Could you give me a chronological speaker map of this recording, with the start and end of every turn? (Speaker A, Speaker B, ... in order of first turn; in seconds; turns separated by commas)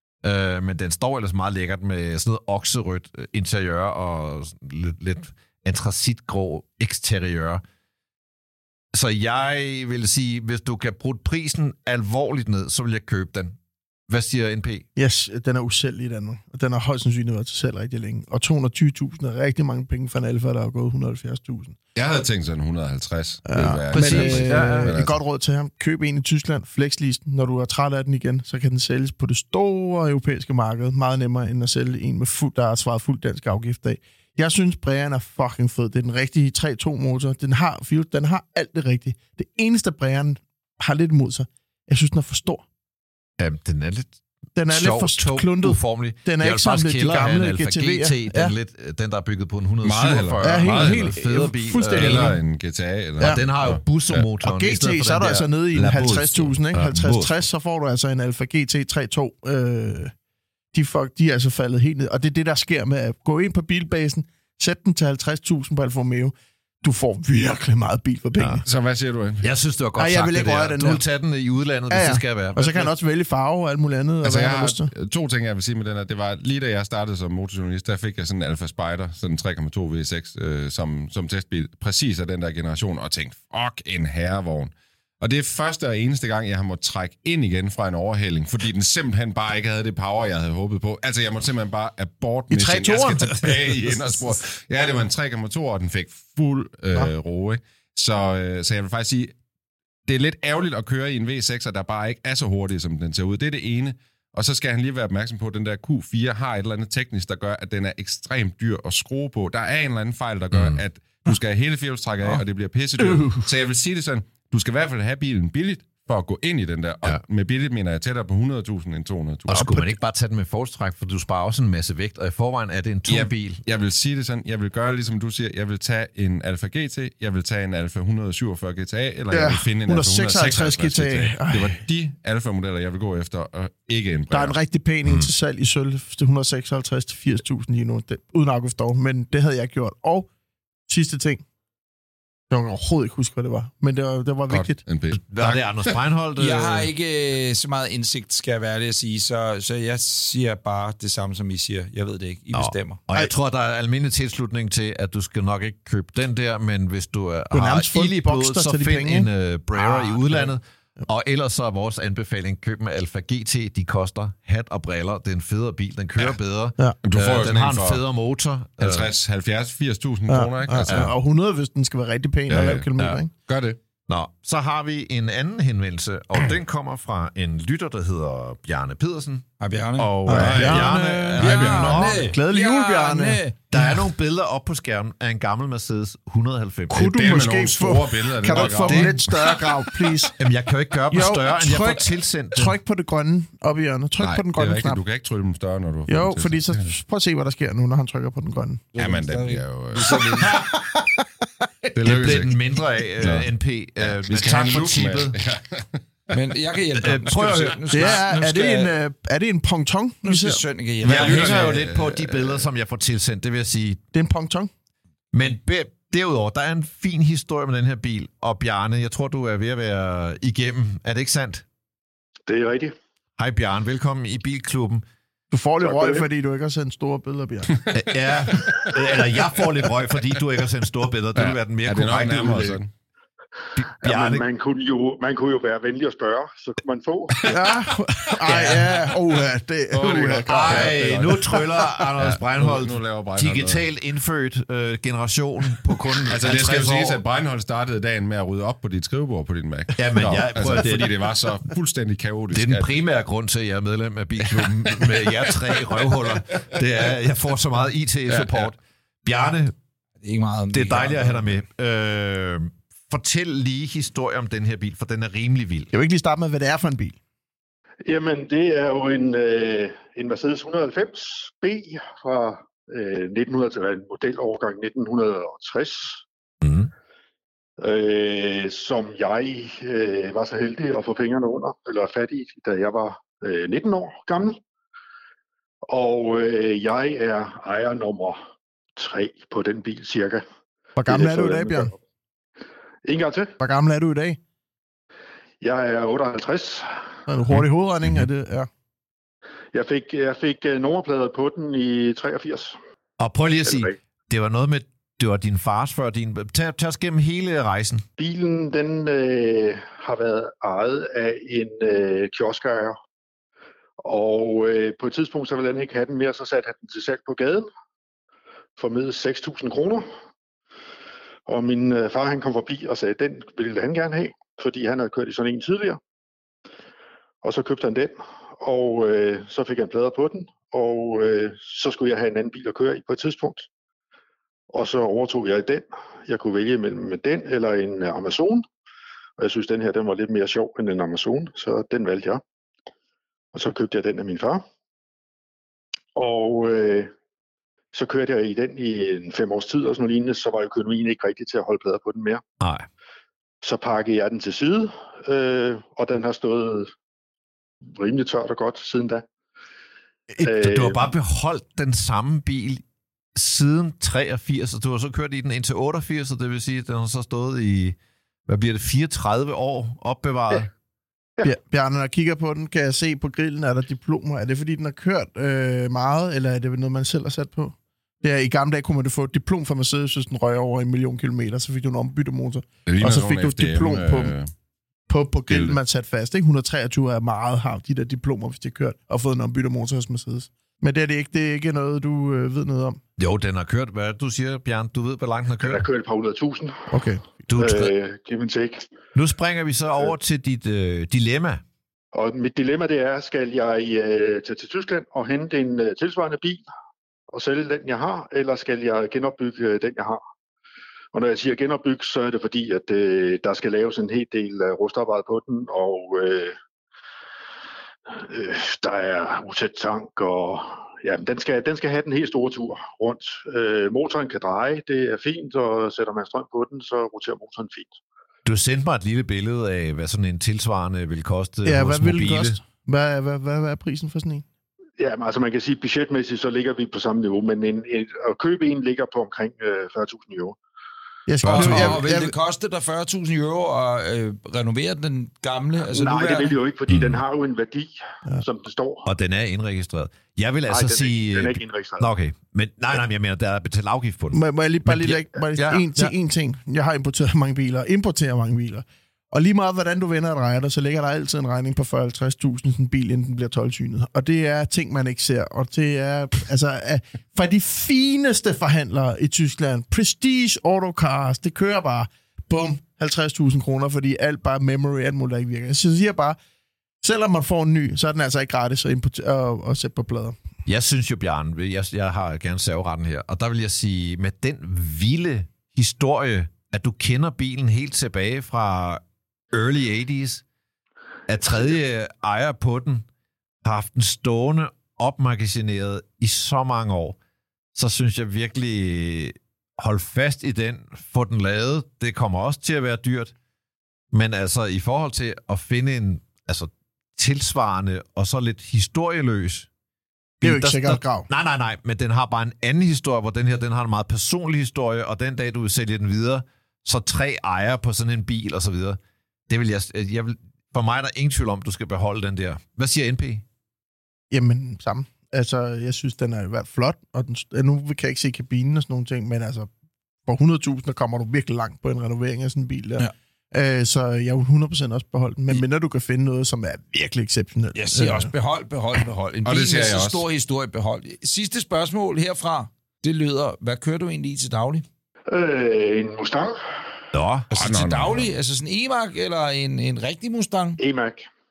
Speaker A: 0.2-7.6, Speaker A: 8.9-13.6, Speaker A: 14.1-14.8, Speaker B: 14.9-21.8, Speaker C: 21.9-25.2, Speaker B: 23.5-42.6, Speaker A: 23.9-25.0, Speaker A: 43.4-44.1, Speaker B: 44.5-48.5, Speaker A: 44.7-52.4, Speaker C: 49.8-51.2, Speaker B: 50.4-52.4, Speaker C: 51.9-54.3, Speaker A: 53.2-57.4, Speaker B: 54.4-60.1, Speaker B: 60.7-68.6, Speaker A: 68.4-68.6, Speaker C: 68.7-69.5, Speaker A: 69.4-72.9, Speaker B: 70.0-71.0, Speaker B: 71.9-74.9, Speaker C: 74.2-99.3, Speaker B: 92.5-94.2, Speaker C: 100.1-119.8, Speaker A: 110.5-110.8, Speaker B: 113.0-113.4, Speaker A: 119.5-123.6, Speaker C: 123.1-134.6, Speaker B: 129.3-131.8, Speaker B: 134.3-140.3, Speaker A: 135.1-135.3, Speaker B: 140.9-141.4, Speaker B: 142.5-144.8, Speaker C: 144.5-146.0, Speaker A: 145.1-146.9, Speaker D: 146.4-153.0, Speaker A: 152.5-169.1, Speaker B: 157.5-160.5, Speaker C: 167.0-168.0, Speaker C: 168.8-171.1, Speaker B: 170.3-173.3, Speaker A: 170.9-171.1, Speaker C: 172.5-172.9, Speaker C: 173.4-173.8, Speaker A: 174.1-179.4, Speaker D: 179.6-180.1, Speaker C: 180.0-182.1, Speaker B: 180.2-183.4, Speaker A: 180.3-182.3, Speaker D: 181.4-183.6, Speaker A: 183.7-187.1, Speaker B: 186.9-190.3, Speaker C: 187.0-189.6, Speaker A: 188.5-189.2, Speaker A: 190.4-192.8, Speaker B: 191.1-195.0, Speaker C: 194.2-196.9, Speaker B: 196.1-198.9, Speaker D: 198.9-200.6, Speaker C: 199.0-200.6, Speaker B: 200.1-201.2, Speaker C: 201.9-202.7, Speaker A: 201.9-205.4, Speaker C: 203.2-206.3, Speaker D: 206.3-208.9, Speaker A: 207.0-208.2, Speaker B: 207.9-210.6, Speaker D: 210.2-211.7, Speaker A: 211.0-214.0, Speaker C: 211.0-212.7, Speaker B: 214.1-214.7, Speaker A: 215.3-221.6, Speaker E: 222.5-222.9, Speaker A: 223.4-225.0, Speaker B: 225.5-227.8, Speaker E: 225.8-226.3, Speaker A: 227.9-232.8, Speaker C: 228.5-228.9, Speaker C: 231.3-232.9, Speaker A: 233.8-234.4, Speaker E: 234.0-237.4, Speaker B: 237.4-241.6, Speaker C: 238.4-238.9, Speaker C: 239.9-243.8, Speaker A: 240.5-247.2, Speaker C: 246.2-252.9, Speaker A: 250.0-251.3, Speaker A: 252.5-259.8, Speaker C: 254.5-256.7, Speaker C: 258.3-258.7, Speaker D: 260.2-261.6, Speaker A: 260.7-265.9, Speaker B: 265.9-267.2, Speaker E: 268.0-276.2, Speaker A: 276.6-276.9, Speaker E: 277.8-284.6, Speaker E: 285.9-288.4, Speaker E: 288.9-290.4, Speaker B: 290.9-291.9, Speaker E: 291.1-291.9, Speaker E: 293.0-293.6, Speaker B: 293.6-294.4, Speaker E: 295.6-297.0, Speaker B: 297.3-298.7, Speaker A: 297.5-298.3, Speaker E: 299.7-302.8, Speaker A: 303.2-308.0, Speaker E: 303.6-303.9, Speaker E: 308.2-313.0, Speaker E: 314.0-317.7, Speaker E: 318.8-320.0, Speaker E: 321.5-326.0, Speaker E: 327.4-333.7, Speaker E: 334.7-338.6, Speaker E: 339.4-342.4, Speaker E: 343.5-344.6, Speaker E: 346.1-347.1, Speaker E: 347.9-352.4, Speaker A: 352.6-352.9, Speaker E: 353.6-356.9, Speaker E: 357.9-359.2, Speaker A: 360.4-362.8, Speaker E: 360.4-361.1, Speaker A: 363.3-370.7, Speaker B: 371.4-384.3, Speaker C: 382.9-384.5, Speaker B: 385.1-393.0, Speaker C: 385.5-385.8, Speaker A: 393.2-395.8, Speaker E: 395.6-397.0, Speaker B: 396.9-397.3, Speaker A: 397.5-397.9, Speaker E: 397.6-398.9, Speaker A: 399.1-401.6, Speaker E: 402.1-406.6, Speaker E: 407.3-410.2, Speaker E: 411.1-416.6, Speaker E: 418.1-428.0, Speaker A: 428.4-432.6, Speaker B: 431.6-434.4, Speaker E: 435.0-440.6, Speaker B: 441.3-442.3, Speaker A: 441.4-442.0, Speaker D: 441.4-446.6, Speaker E: 445.9-449.1, Speaker A: 446.9-447.2, Speaker A: 449.1-456.1, Speaker E: 450.7-452.1, Speaker B: 454.3-476.4, Speaker B: 477.0-480.4, Speaker A: 480.6-490.4, Speaker A: 491.3-493.1, Speaker A: 493.6-497.2, Speaker A: 497.7-503.3, Speaker A: 504.1-509.7, Speaker A: 510.4-523.4, Speaker B: 510.4-511.3, Speaker B: 524.3-529.7, Speaker B: 530.2-538.3, Speaker D: 537.7-544.8, Speaker C: 539.4-540.2, Speaker E: 545.3-546.6, Speaker A: 547.1-547.5, Speaker D: 547.5-550.8, Speaker C: 547.6-548.2, Speaker E: 550.8-551.3